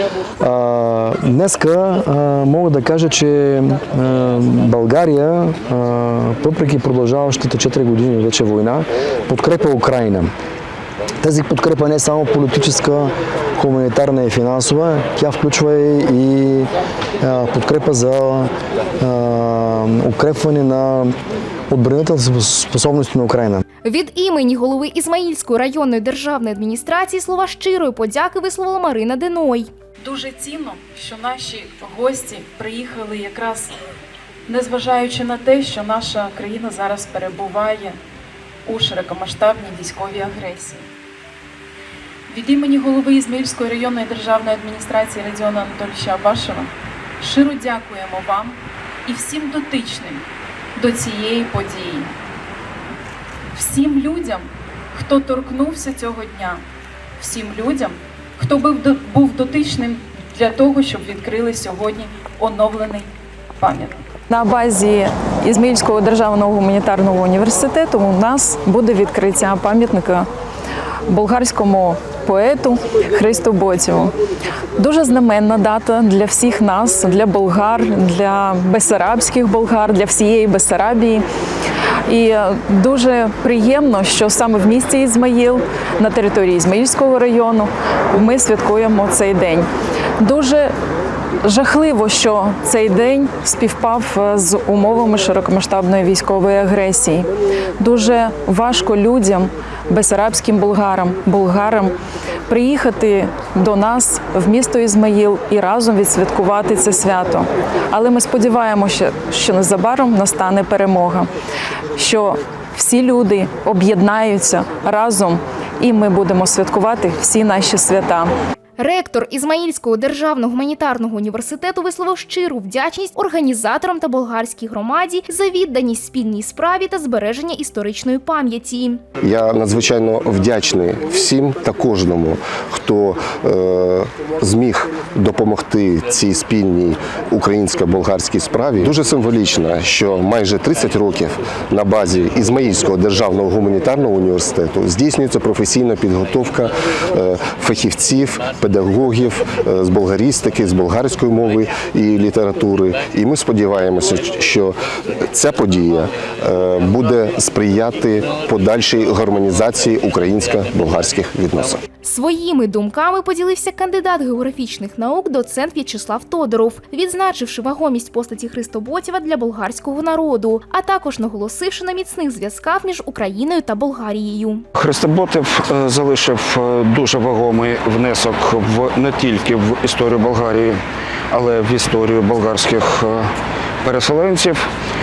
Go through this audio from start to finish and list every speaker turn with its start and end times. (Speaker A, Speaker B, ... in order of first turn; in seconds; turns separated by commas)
Speaker A: 0.4-10.3, Speaker A: 11.2-16.7, Speaker A: 17.2-21.1, Speaker A: 21.7-23.6, Speaker B: 23.8-29.7, Speaker C: 30.0-33.7, Speaker C: 34.5-38.0, Speaker C: 38.6-40.8, Speaker C: 42.3-52.1, Speaker C: 53.5-56.6, Speaker C: 57.2-64.0, Speaker D: 64.3-70.3, Speaker D: 71.1-74.1, Speaker D: 74.8-81.2, Speaker D: 82.1-89.7, Speaker D: 90.2-90.7, Speaker D: 91.5-97.3, Speaker D: 97.8-101.9, Speaker D: 102.5-111.3, Speaker D: 112.0-118.3, Speaker B: 118.8-129.0, Speaker E: 129.2-154.8, Speaker E: 155.3-161.8, Speaker B: 162.0-174.7, Speaker F: 174.7-180.8, Speaker F: 181.3-183.3, Speaker F: 183.8-184.6